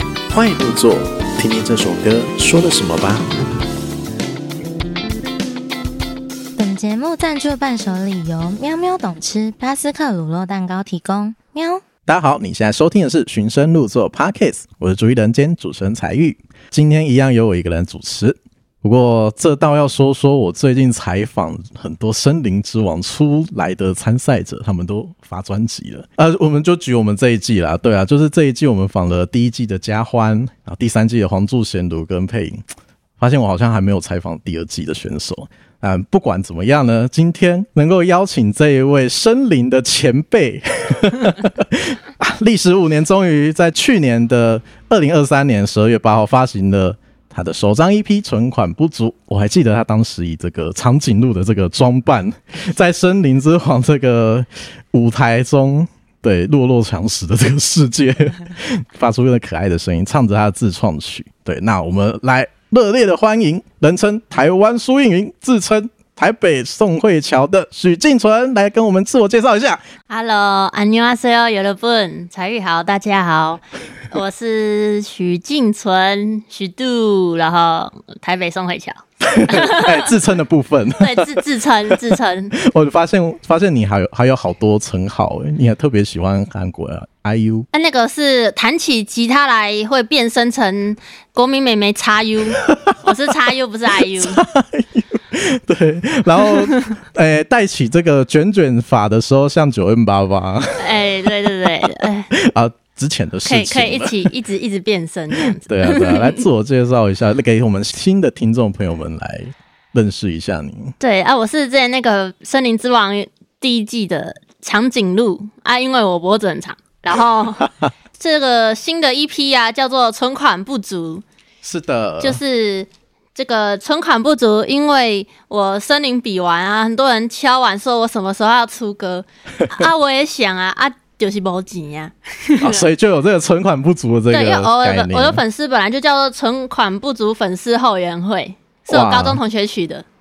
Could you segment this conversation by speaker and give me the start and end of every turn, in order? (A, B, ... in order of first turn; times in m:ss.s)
0:00.3-0:03.4 A
0:06.6-0:11.8 B
0:12.0-0:32.6 A
0:33.2-1:09.8 A
1:10.1-1:20.1 C
1:19.2-1:27.7 A
1:21.0-1:22.5 C
1:27.7-1:34.4 C
1:32.6-1:33.2 A
1:34.0-1:44.3 A
1:40.8-1:42.3 C
1:43.4-1:46.4 C
1:45.4-1:51.0 A
1:51.0-2:01.2 C
2:01.6-2:02.4 A
2:02.2-2:12.9 C
2:12.6-2:15.4 A
2:14.3-2:20.0 C
2:18.9-2:19.4 A